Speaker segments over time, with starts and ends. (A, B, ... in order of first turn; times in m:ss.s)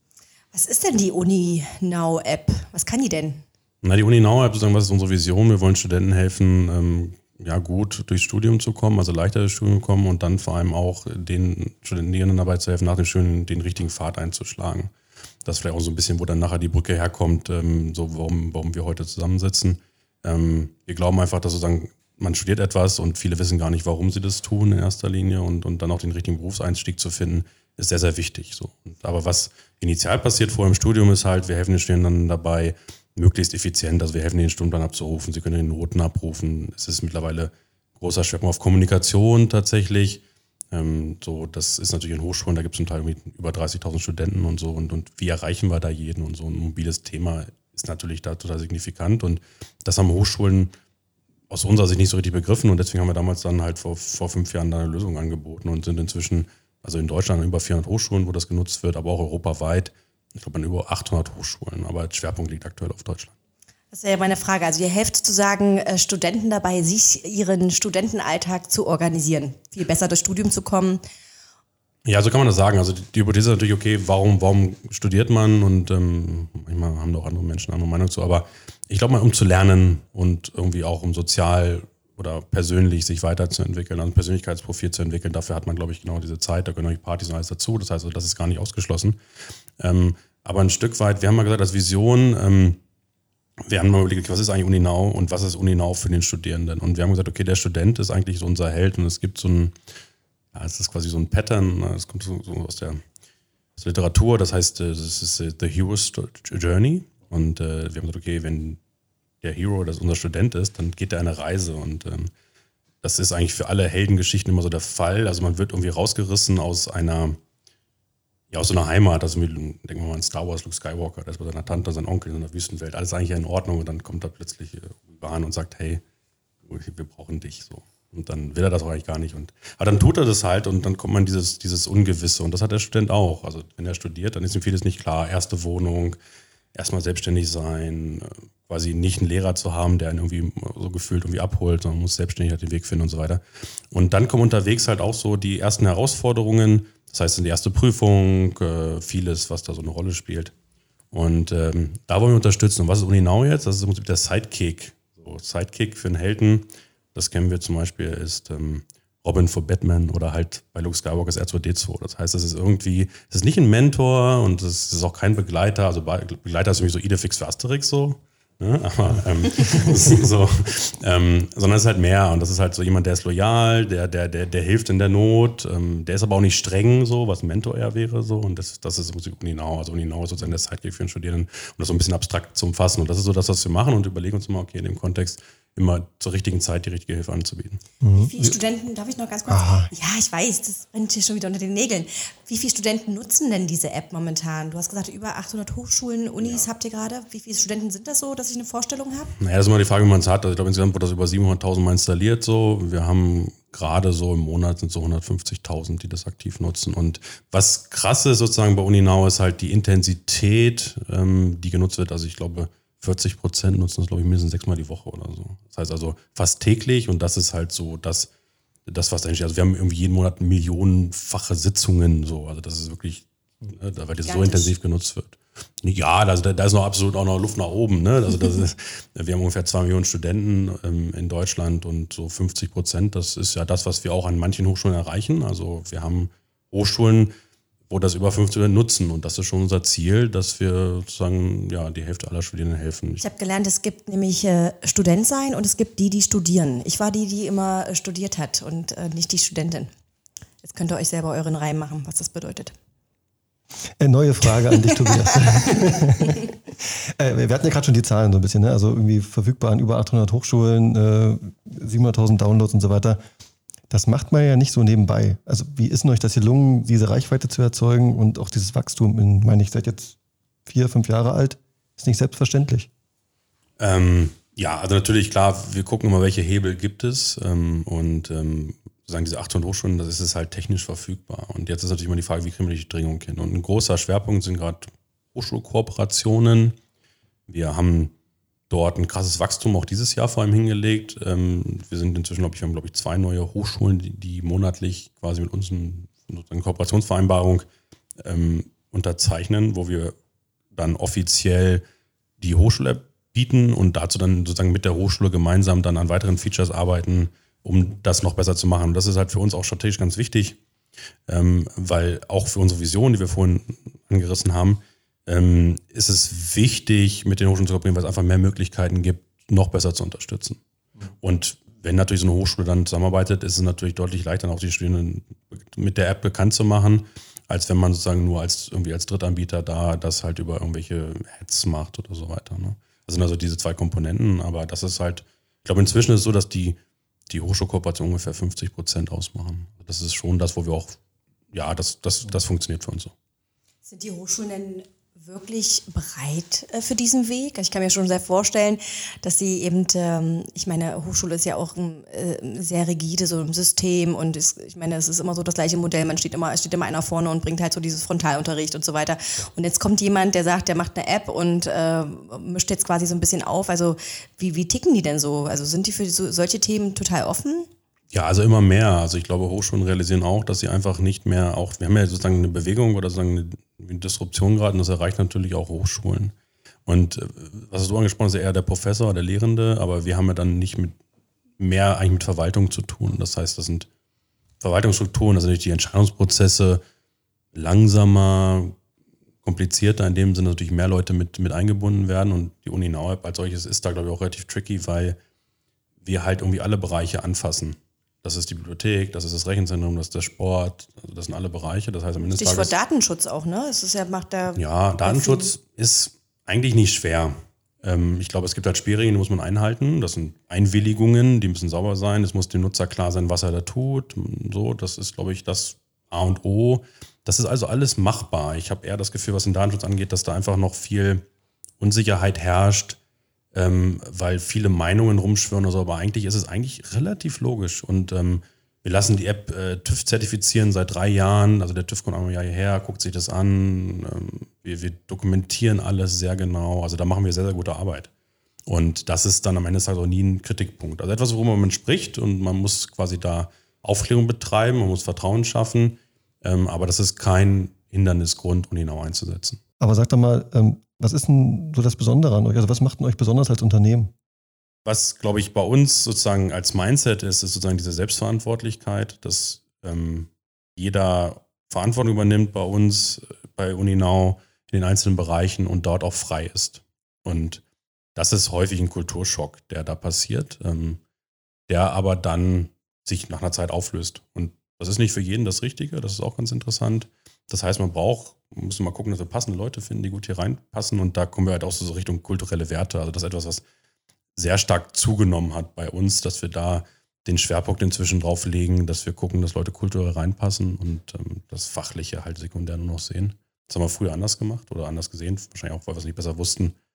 0:00.5-0:03.4 A
0:03.8-0:14.9 B
0:15.4-0:50.7 B
0:51.5-1:03.3 B
1:03.9-1:11.0 A
1:12.0-1:29.2 B
1:29.8-1:32.8 B
1:33.6-1:39.7 B
1:40.5-1:43.0 B
1:43.8-1:48.8 B
1:49.4-1:52.3 B
1:53.0-1:57.4 B
1:58.5-2:06.0 B
2:06.6-2:16.2 B
2:16.7-2:30.5 B
2:31.1-3:07.8 B
3:08.0-3:08.5 C
3:08.1-3:19.3 A
3:09.5-3:09.9 C
3:19.4-3:38.3 B
3:38.9-3:57.3 B
3:44.2-3:44.7 A
3:57.9-4:03.2 B
4:03.2-4:09.9 A
4:10.6-4:12.7 A
4:14.0-4:16.5 C
4:14.7-4:15.2 A
4:17.0-4:23.2 C
4:23.9-4:32.9 C
4:33.8-4:46.8 B
4:47.5-4:48.1 B
4:48.7-4:57.7 B
4:58.2-5:00.1 B
5:00.7-5:01.8 B
5:02.4-5:10.6 B
5:11.3-5:20.6 B
5:21.2-5:36.8 B
5:37.3-5:41.0 B
5:41.5-5:43.1 B
5:43.8-6:07.7 A
6:08.1-6:16.3 B
6:16.8-6:21.0 B
6:21.6-6:23.9 B
6:24.6-6:26.8 B
6:27.5-6:28.8 B
6:29.4-6:35.2 B
6:36.0-6:42.7 B
6:42.2-6:45.5 A
6:44.5-7:01.2 B
7:01.8-7:03.0 B
7:03.5-7:18.1 B
7:18.6-7:29.6 B
7:29.8-7:34.1 C
7:34.8-7:47.6 B
7:48.1-7:51.0 B
7:51.7-8:03.6 B
8:04.4-8:16.8 B